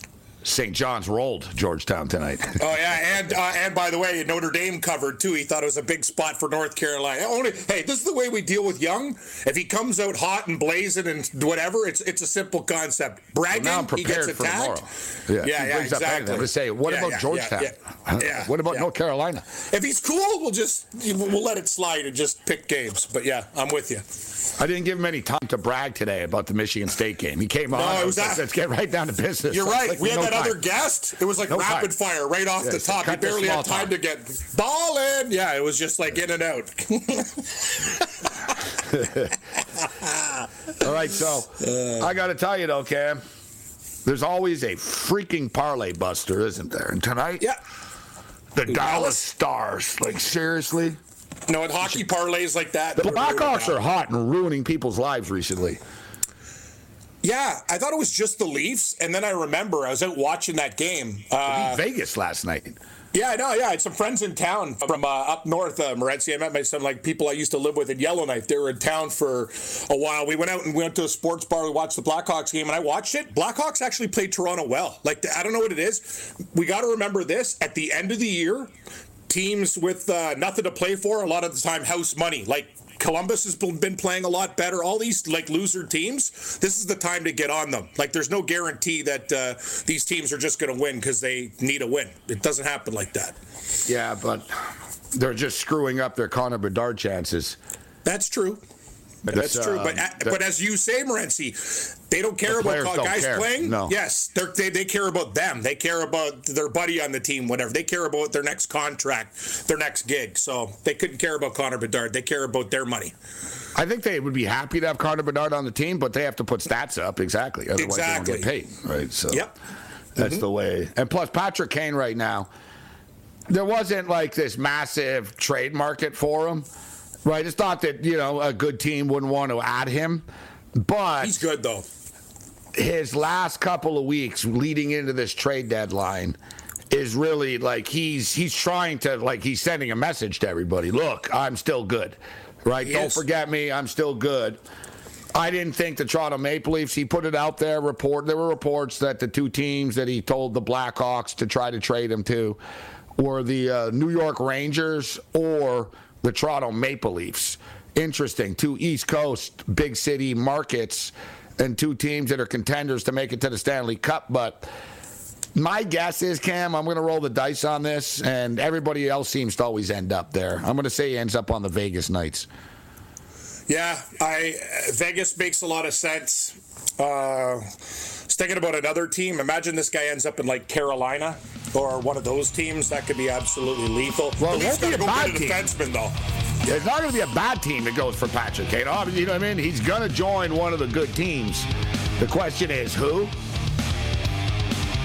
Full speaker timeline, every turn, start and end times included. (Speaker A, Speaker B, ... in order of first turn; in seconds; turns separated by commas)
Speaker A: 0.4-2.6, Speaker B: 2.6-14.9, Speaker A: 13.5-19.5, Speaker B: 15.4-18.9, Speaker B: 19.7-24.1, Speaker A: 24.6-30.6, Speaker B: 27.7-28.5, Speaker B: 29.5-38.5, Speaker A: 31.5-31.9, Speaker A: 32.6-33.9, Speaker A: 38.9-39.3, Speaker B: 39.8-40.5, Speaker A: 40.8-43.2, Speaker B: 41.6-42.1, Speaker A: 44.0-47.5, Speaker A: 48.5-51.0, Speaker B: 48.7-49.2, Speaker B: 51.5-53.8, Speaker A: 53.0-55.8, Speaker B: 57.2-61.8, Speaker A: 61.5-62.8, Speaker B: 63.1-78.7, Speaker B: 79.3-93.4, Speaker A: 93.9-94.5, Speaker A: 95.1-97.6, Speaker B: 98.0-98.6, Speaker A: 99.3-100.4, Speaker B: 99.3-113.1, Speaker A: 102.5-104.0, Speaker A: 113.8-119.5, Speaker B: 117.8-118.5, Speaker A: 120.2-122.5, Speaker B: 120.2-120.5, Speaker A: 123.5-126.7, Speaker A: 127.2-131.5, Speaker B: 131.2-131.8, Speaker A: 132.8-136.4, Speaker A: 136.9-144.6, Speaker B: 142.8-143.2, Speaker A: 145.3-152.6, Speaker A: 153.2-164.7, Speaker A: 165.6-172.5, Speaker B: 173.7-177.7, Speaker B: 178.3-186.2, Speaker A: 184.4-185.7, Speaker A: 186.7-191.7, Speaker A: 192.2-193.3